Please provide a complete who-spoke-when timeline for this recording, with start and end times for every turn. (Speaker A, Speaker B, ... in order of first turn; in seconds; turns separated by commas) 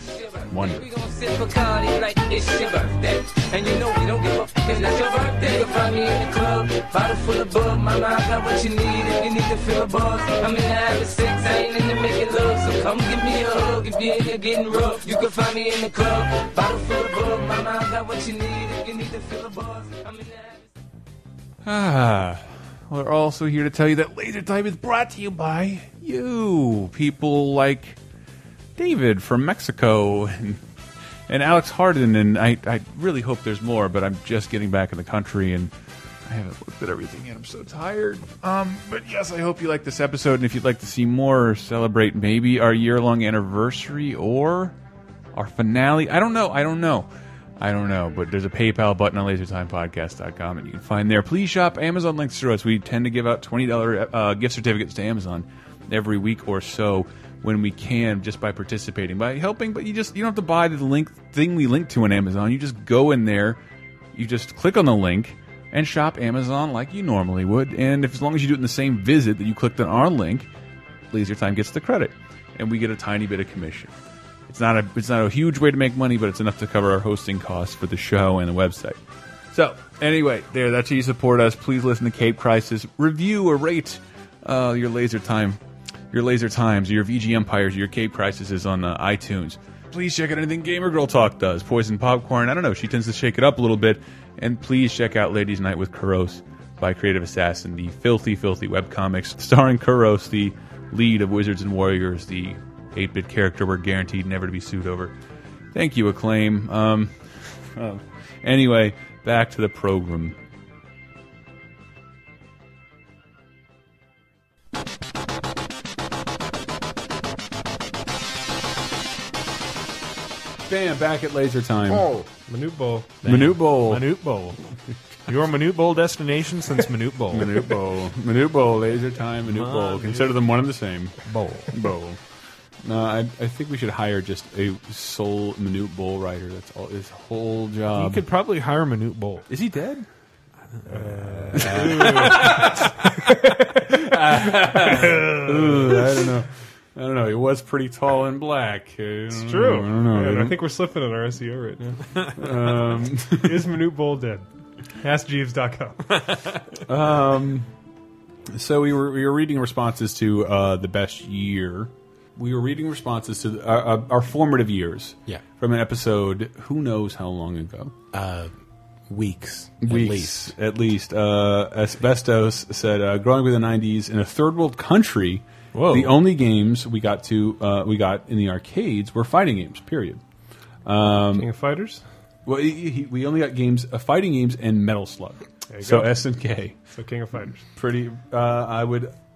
Speaker A: 0.1-20.6, Speaker B: 0.5-1.0, Speaker B: 21.6-28.0, Speaker B: 28.8-30.6, Speaker B: 31.3-35.7, Speaker B: 36.3-44.8, Speaker B: 45.3-47.1, Speaker B: 47.6-63.6, Speaker B: 64.1-70.5, Speaker B: 71.1-73.9, Speaker B: 74.5-79.0, Speaker B: 79.5-85.6, Speaker B: 86.1-105.1, Speaker B: 105.7-110.4, Speaker B: 120.7-122.2, Speaker C: 121.9-122.2, Speaker D: 122.5-123.2, Speaker E: 123.2-124.6, Speaker B: 123.2-124.2, Speaker E: 125.3-127.6, Speaker B: 127.3-132.2, Speaker E: 129.4-130.4, Speaker E: 131.2-131.7, Speaker B: 132.8-138.2, Speaker E: 137.9-139.5, Speaker B: 139.5-140.1, Speaker D: 140.9-143.7, Speaker E: 140.9-142.7, Speaker B: 141.5-142.9, Speaker B: 143.8-150.6, Speaker D: 144.9-145.3, Speaker D: 149.3-152.3, Speaker B: 152.3-153.8, Speaker D: 153.3-154.4, Speaker D: 155.0-156.2, Speaker B: 156.8-157.7, Speaker B: 158.5-167.9, Speaker C: 168.1-168.5, Speaker C: 169.1-170.5, Speaker B: 169.8-180.2, Speaker E: 175.7-176.2, Speaker B: 180.8-181.5, Speaker D: 181.3-182.0, Speaker B: 182.4-186.8, Speaker D: 185.7-186.2, Speaker D: 186.9-187.7, Speaker B: 187.7-189.1